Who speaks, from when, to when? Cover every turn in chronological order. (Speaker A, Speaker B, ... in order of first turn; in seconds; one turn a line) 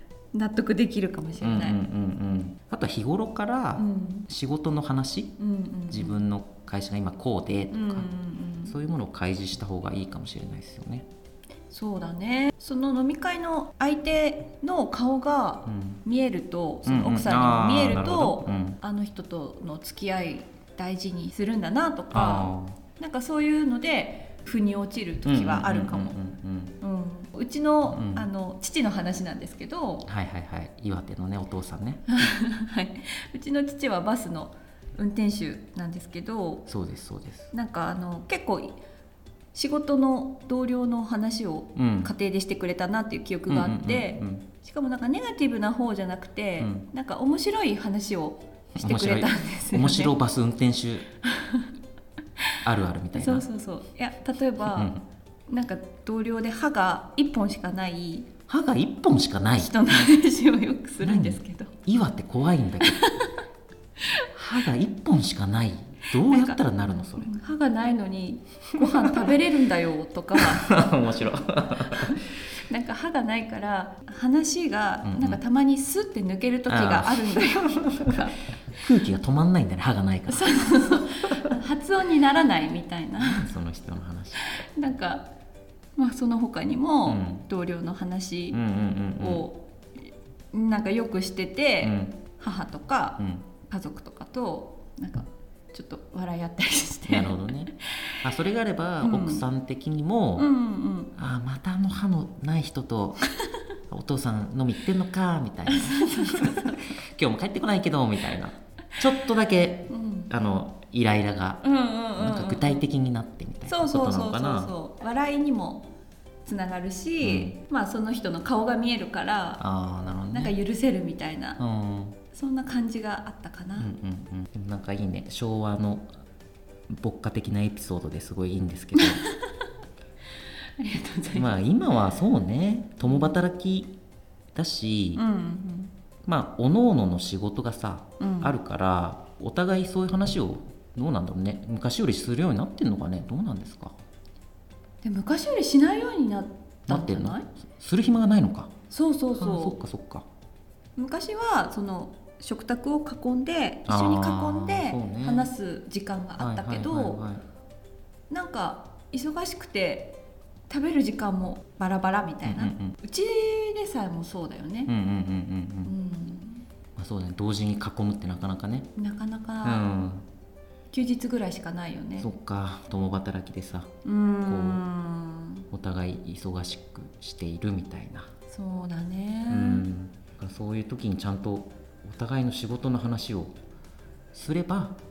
Speaker A: 0.3-1.8
Speaker B: 1.4-5.4
Speaker A: 3.8-4.3
Speaker A: 5.4-6.2
Speaker B: 5.9-8.1
Speaker A: 7.7-8.8
Speaker B: 8.7-11.1
Speaker A: 11.7-26.2
Speaker B: 15.7-16.0
Speaker B: 16.9-18.8
Speaker B: 22.1-22.8
Speaker B: 25.2-26.8
Speaker A: 26.8-30.1
Speaker B: 27.9-28.3
Speaker B: 30.1-32.0
Speaker A: 32.1-36.6
Speaker B: 36.7-37.5
Speaker A: 37.5-38.8
Speaker A: 39.5-50.1
Speaker B: 41.8-42.1
Speaker B: 43.5-44.5
Speaker B: 46.6-46.9
Speaker B: 48.8-51.1
Speaker A: 51.2-51.7
Speaker B: 52.6-53.5
Speaker A: 53.1-54.9
Speaker B: 54.6-55.0
Speaker A: 55.5-58.3
Speaker B: 58.5-59.8
Speaker A: 59.6-61.7
Speaker B: 61.0-63.1
Speaker A: 62.8-63.3
Speaker B: 64.3-67.4
Speaker A: 66.1-66.6
Speaker A: 67.2-70.8
Speaker B: 68.8-69.3
Speaker B: 70.4-72.2
Speaker A: 72.6-78.5
Speaker B: 75.0-75.4
Speaker B: 76.7-78.2
Speaker B: 78.8-81.0
Speaker A: 80.3-83.5
Speaker B: 83.2-84.6
Speaker A: 84.4-85.3
Speaker A: 86.0-88.6
Speaker B: 87.0-87.5
Speaker B: 88.5-89.5
Speaker A: 89.2-89.7
Speaker A: 90.5-98.2
Speaker B: 91.8-92.2
Speaker B: 93.2-93.5
Speaker B: 97.1-100.5
Speaker A: 99.0-99.4
Speaker A: 100.4-101.1
Speaker B: 101.2-103.3
Speaker B: 103.9-114.7
Speaker A: 105.7-107.0
Speaker A: 109.9-110.3
Speaker A: 111.6-112.8
Speaker A: 113.7-115.9
Speaker A: 116.5-119.6
Speaker B: 117.2-117.6
Speaker B: 119.6-120.5
Speaker A: 120.3-121.6
Speaker B: 121.6-122.2
Speaker A: 122.3-123.9
Speaker B: 123.8-126.1
Speaker B: 126.9-129.2
Speaker A: 129.0-129.5
Speaker A: 130.8-131.5
Speaker B: 131.3-134.0
Speaker A: 133.0-133.3
Speaker B: 134.6-135.2
Speaker A: 135.2-135.9
Speaker B: 136.2-143.9
Speaker A: 138.2-138.6
Speaker A: 145.0-147.5
Speaker B: 146.9-148.7
Speaker A: 148.9-149.8
Speaker B: 149.3-150.3
Speaker A: 151.0-157.2
Speaker B: 153.9-155.5
Speaker B: 156.4-157.4
Speaker A: 158.3-164.9
Speaker B: 162.4-163.0
Speaker B: 164.9-165.9
Speaker A: 165.8-166.7
Speaker B: 167.0-168.9
Speaker A: 169.0-169.8
Speaker B: 169.6-170.2
Speaker A: 170.9-172.3
Speaker B: 172.2-173.9
Speaker A: 174.1-175.7
Speaker B: 174.5-174.9
Speaker B: 175.7-178.3
Speaker A: 178.5-179.9
Speaker B: 179.5-183.6
Speaker B: 184.3-185.0